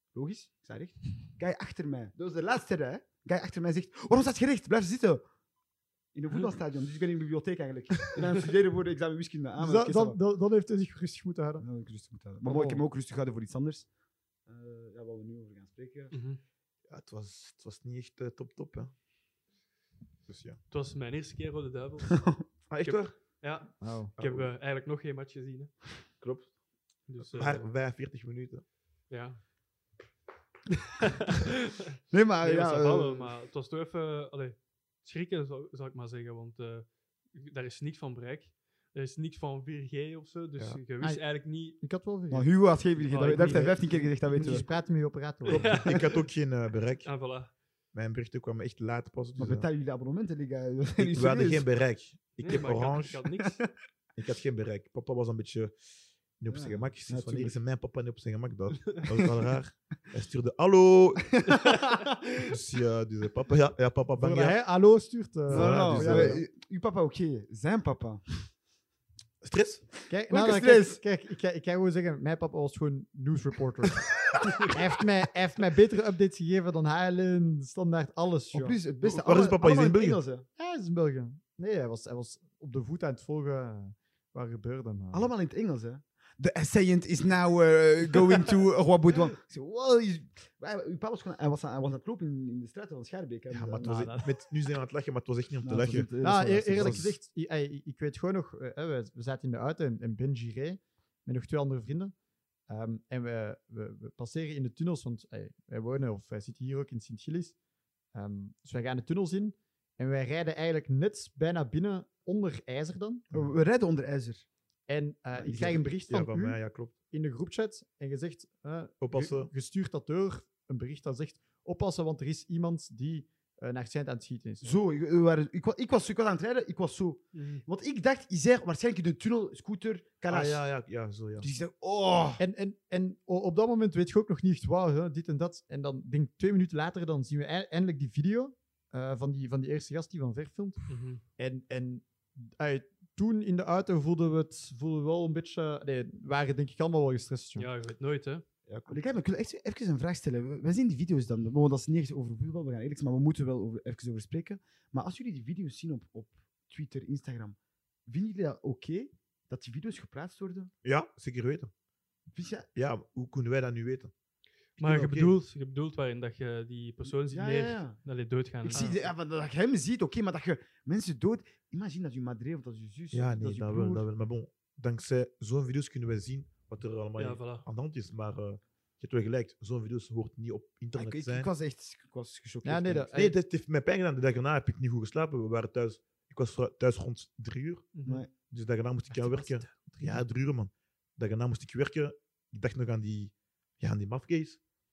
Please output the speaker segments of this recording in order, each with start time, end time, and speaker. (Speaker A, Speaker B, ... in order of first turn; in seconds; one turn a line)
Speaker A: 0.1-5.2
Speaker A: 6.1-10.2
Speaker B: 9.6-11.7
Speaker A: 11.6-13.9
Speaker B: 12.4-12.8
Speaker A: 14.5-16.1
Speaker C: 16.1-16.4
Speaker D: 16.9-18.9
Speaker D: 20.3-20.6
Speaker C: 20.7-22.3
Speaker A: 22.1-22.4
Speaker D: 22.7-23.2
Speaker C: 22.8-25.8
Speaker B: 23.8-24.1
Speaker D: 24.2-24.5
Speaker D: 26.2-26.5
Speaker C: 27.1-27.6
Speaker D: 27.2-28.6
Speaker C: 29.1-29.4
Speaker C: 31.0-31.9
Speaker A: 32.1-33.3
Speaker C: 32.4-41.8
Speaker B: 41.0-42.5
Speaker A: 42.3-44.7
Speaker C: 43.0-43.8
Speaker B: 43.2-45.7
Speaker C: 44.4-44.7
Speaker C: 45.5-46.0
Speaker D: 45.5-47.2
Speaker C: 47.0-47.5
Speaker D: 47.9-49.7
Speaker A: 49.4-51.7
Speaker D: 51.0-53.2
Speaker C: 52.4-53.6
Speaker D: 54.2-55.7
Speaker D: 56.4-61.6
Speaker A: 56.5-57.5
Speaker A: 61.4-62.5
Speaker D: 62.4-64.6
Speaker B: 64.2-66.4
Speaker D: 65.5-66.4
Speaker A: 65.5-68.5
Speaker D: 69.4-69.9
Speaker B: 70.1-78.8
Speaker A: 70.3-71.0
Speaker A: 78.5-80.5
Speaker D: 79.0-80.2
Speaker B: 80.6-85.3
Speaker A: 85.1-94.2
Speaker D: 93.5-96.1
Speaker B: 93.8-94.3
Speaker A: 95.6-97.1
Speaker B: 96.2-102.1
Speaker D: 96.8-97.0
Speaker B: 102.7-107.6
Speaker B: 108.1-113.2
Speaker A: 113.3-114.5
Speaker B: 114.9-116.6
Speaker A: 115.4-115.8
Speaker D: 115.7-117.0
Speaker B: 117.1-124.8
Speaker D: 119.0-119.5
Speaker A: 124.6-130.6
Speaker C: 127.3-127.6
Speaker D: 130.3-131.5
Speaker A: 131.4-132.4
Speaker B: 132.4-147.7
Speaker C: 140.9-141.2
Speaker C: 147.6-148.4
Speaker D: 148.7-149.0
Speaker A: 148.9-160.7
Speaker D: 160.8-161.7
Speaker A: 162.3-162.7
Speaker D: 162.8-164.1
Speaker D: 164.8-165.3
Speaker C: 164.8-169.1
Speaker A: 167.3-168.0
Speaker A: 168.7-174.1
Speaker D: 173.1-181.5
Speaker C: 177.2-177.7
Speaker A: 180.9-183.1
Speaker B: 182.6-183.4
Speaker D: 183.2-194.6
Speaker C: 187.9-188.2
Speaker B: 189.2-190.1